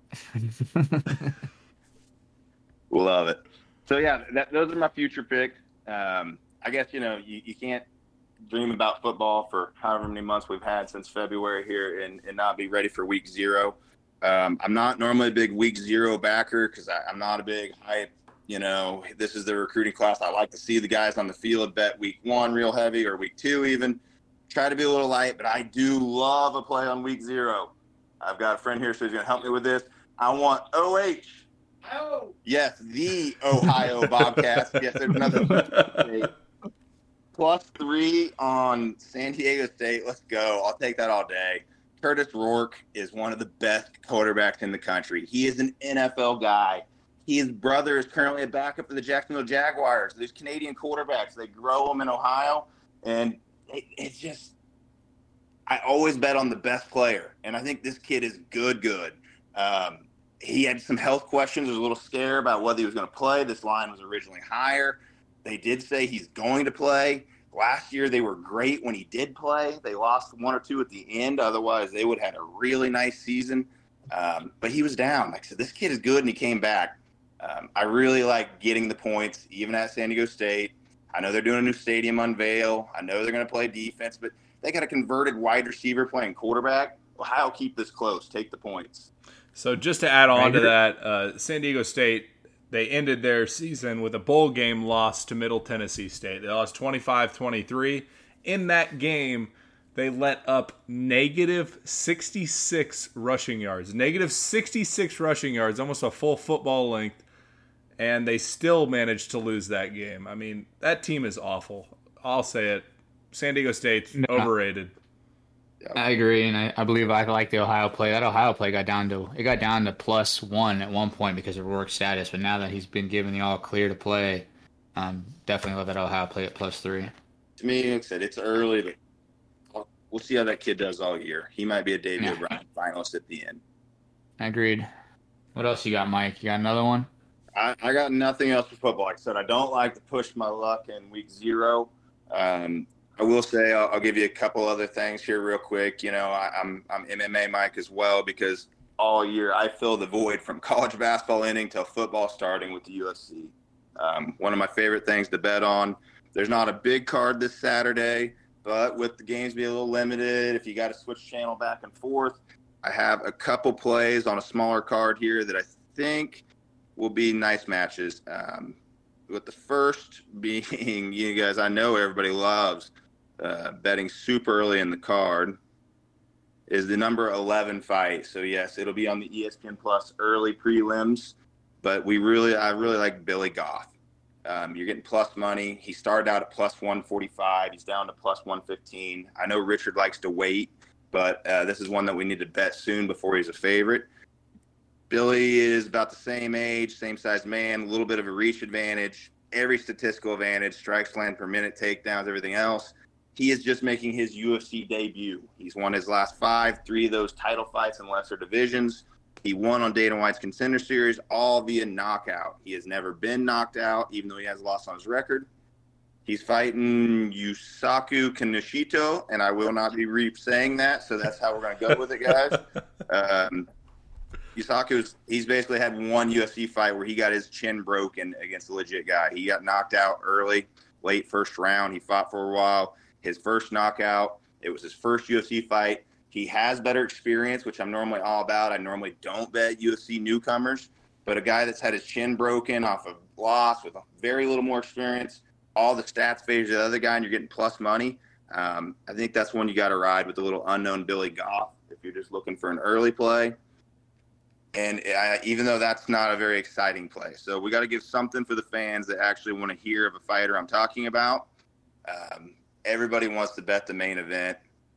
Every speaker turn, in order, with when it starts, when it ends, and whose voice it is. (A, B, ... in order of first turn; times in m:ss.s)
0:00.3-0:01.3 A
0:02.9-0:07.8 B
0:08.5-0:31.4 B
0:32.4-0:36.3 B
0:35.2-0:36.0 C
0:37.3-0:54.5 B
0:55.7-1:29.1 B
1:29.6-1:47.2 C
1:30.3-1:30.7 A
1:48.0-1:55.0 C
1:54.2-1:54.5 A
1:56.0-2:07.1 A
2:07.6-2:09.0 B
2:09.7-2:13.6 B
2:12.2-2:12.5 A
2:14.4-2:14.9 A
2:15.6-2:17.1 A
2:17.6-2:46.4 B
2:47.0-2:48.8 B
2:49.3-2:55.6 B
2:56.7-3:03.9 B
3:04.4-3:14.1 B
3:15.1-3:35.5 B
3:36.3-3:43.7 B
3:44.6-4:13.6 B
4:14.7-4:21.5 B
4:22.1-4:24.6 B